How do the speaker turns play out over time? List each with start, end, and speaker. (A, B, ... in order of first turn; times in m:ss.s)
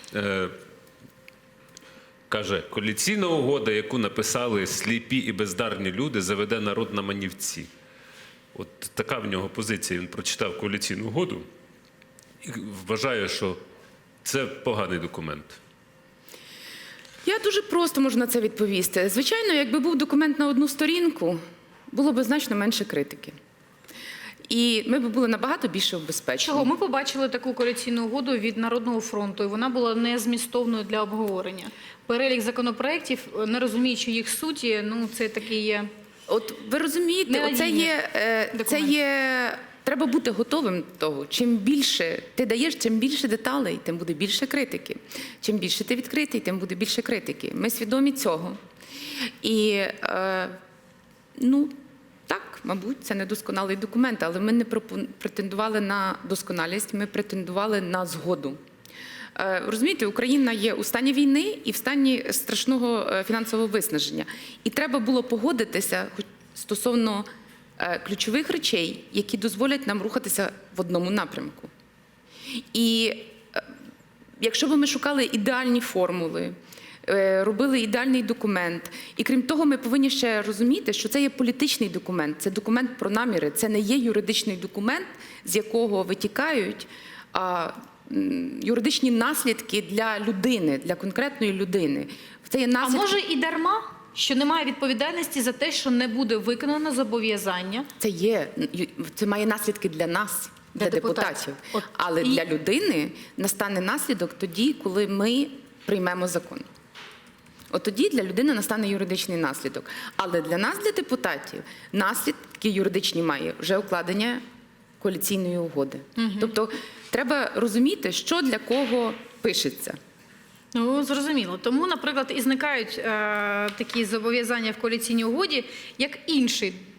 0:00.1-0:00.5 A
0:02.3-0:07.7 A
0:08.5-0:11.5 A
0:12.4-0:13.6 A
0:14.2-0:15.6 A
0:17.2-0:21.4 B
0:21.9-0:23.4 B
0:24.5-0:26.7 B
0:26.4-0:35.9 C
0:36.3-0:48.6 B
0:37.3-0:37.9 C
0:38.5-0:38.9 C
0:49.4-0:50.6 B
0:51.4-0:51.7 B
0:52.3-0:58.6 B
0:59.4-1:07.3 B
1:07.8-1:11.7 B
1:12.6-1:13.7 B
1:14.4-1:33.2 B
1:32.8-1:37.9 C
1:38.0-1:46.7 B
1:40.8-1:42.4 C
1:47.7-1:54.4 B
1:55.0-2:00.0 B
1:56.2-1:56.5 C
2:00.7-2:06.8 C